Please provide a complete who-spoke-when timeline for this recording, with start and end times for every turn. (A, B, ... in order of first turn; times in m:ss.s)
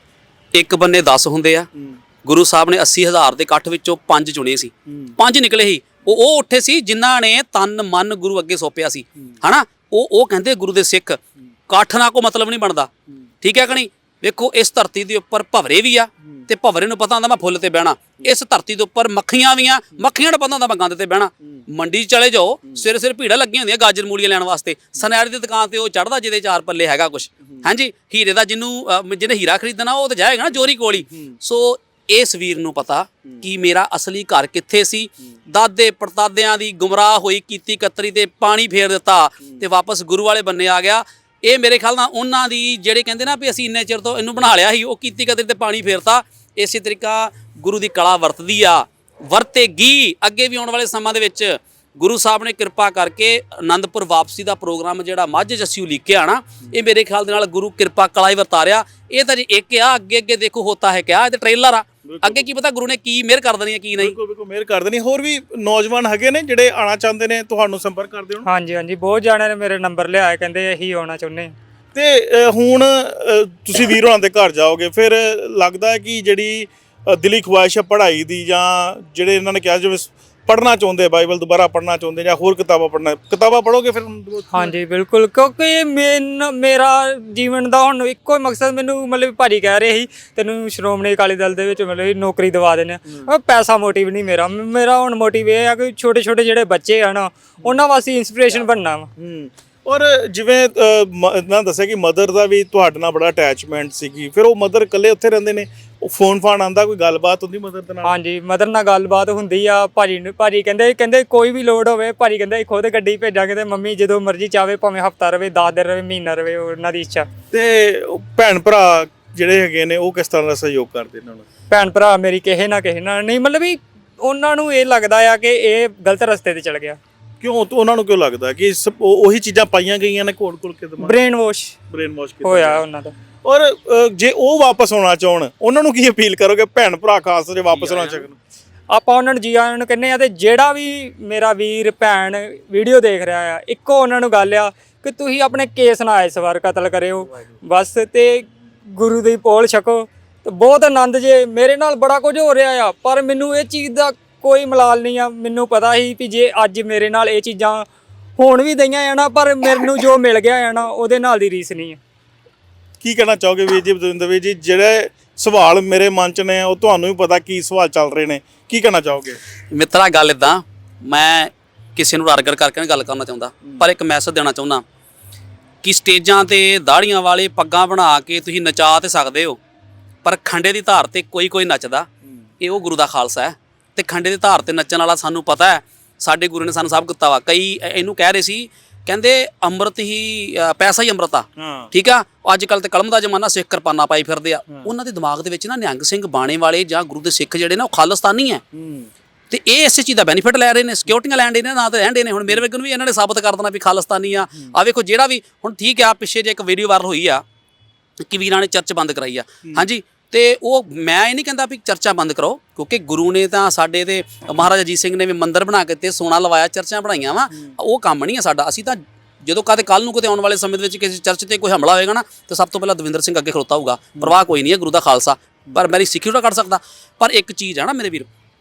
0:00.5-0:01.7 A
0:02.2-0:12.9 A
0:04.9-0:05.1 B
0:13.4-1:04.2 A
1:02.0-1:02.5 B
1:04.0-1:08.4 B
1:08.4-1:11.5 C
1:11.9-1:24.7 B
1:24.5-1:39.1 C
1:39.2-1:48.1 B
1:48.0-1:57.3 C
1:57.5-2:01.4 B
2:01.7-2:07.0 C
2:07.4-2:11.2 B
2:11.0-2:11.8 C
2:11.9-2:12.8 B
2:12.4-2:13.1 C
2:13.4-2:18.3 B
2:17.7-2:18.2 A
2:18.9-2:37.8 C
2:38.4-2:42.0 C
2:43.0-2:49.4 B
2:49.7-2:54.8 A
2:55.8-2:59.6 A
3:00.2-3:02.1 A
3:02.6-3:18.6 A
3:11.6-3:11.9 B
3:18.7-3:19.1 B
3:19.5-3:27.4 A
3:28.3-3:48.2 A